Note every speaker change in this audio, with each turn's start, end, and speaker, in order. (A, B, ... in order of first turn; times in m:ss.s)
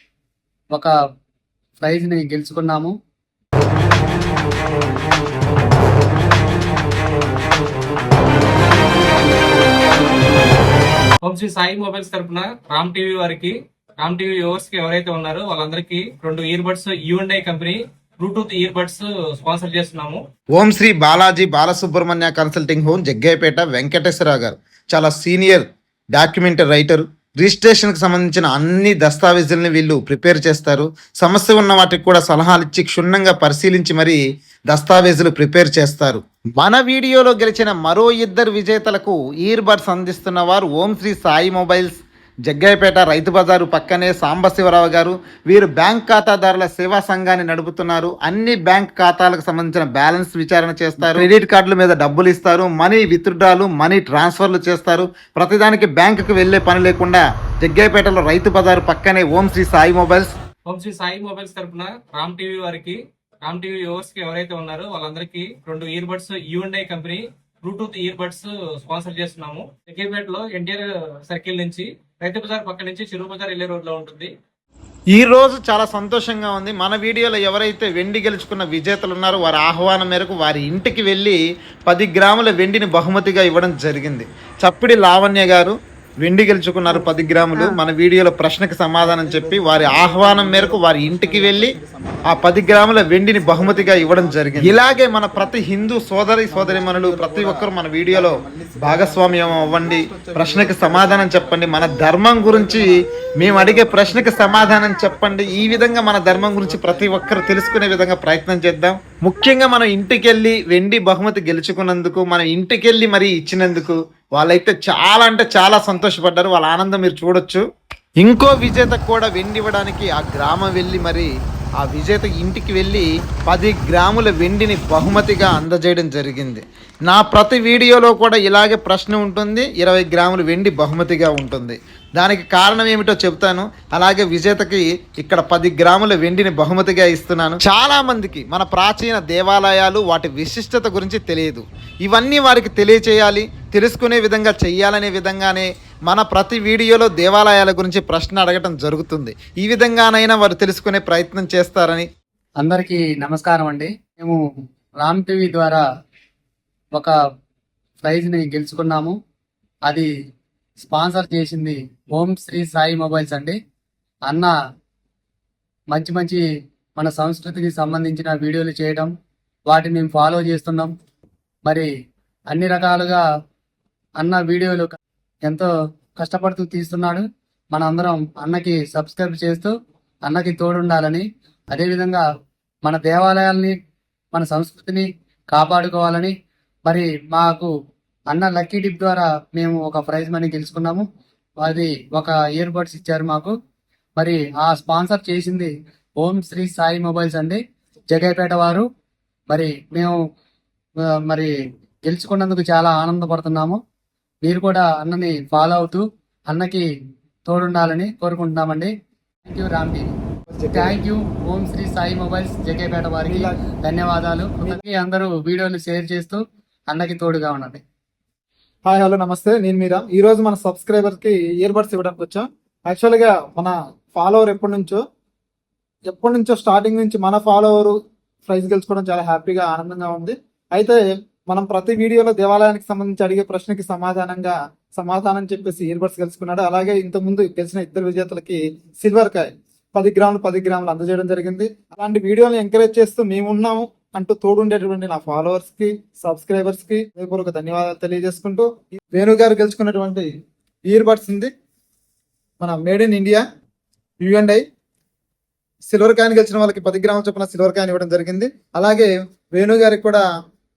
0:01.8-0:02.9 A
0:11.2-0:20.2 B
0:20.5-1:00.3 C
1:00.7-1:14.3 B
1:15.1-1:31.8 C
1:29.7-1:30.3 D
1:31.0-1:32.1 D
1:32.3-1:57.6 C
1:33.5-1:35.2 D
1:58.2-2:32.1 C
2:32.6-2:34.4 A
2:35.0-2:35.8 A
2:38.0-2:39.2 A
2:40.8-2:43.6 A
2:44.3-2:44.5 A
2:45.9-2:46.4 A
2:47.0-2:49.1 A
2:49.7-2:50.9 A
2:52.5-2:53.2 A
2:54.2-2:54.9 A
2:55.4-2:59.7 A
3:00.3-3:02.2 A
3:02.8-3:03.7 A
3:04.3-3:06.3 A
3:06.9-3:07.7 A
3:08.3-3:11.1 A
3:11.6-3:13.5 A
3:14.2-3:18.8 A
3:19.5-3:20.2 A
3:21.2-3:21.5 A
3:22.1-3:23.8 A
3:24.4-3:26.8 A
3:27.5-3:28.9 A
3:29.5-3:30.1 A
3:30.5-3:31.0 D
3:30.7-3:37.8 A
3:33.2-3:33.6 D
3:38.9-3:45.0 D
3:46.1-4:10.3 D
4:10.9-4:11.5 D
4:12.6-4:13.4 D
4:14.2-4:14.6 D
4:15.9-4:20.2 D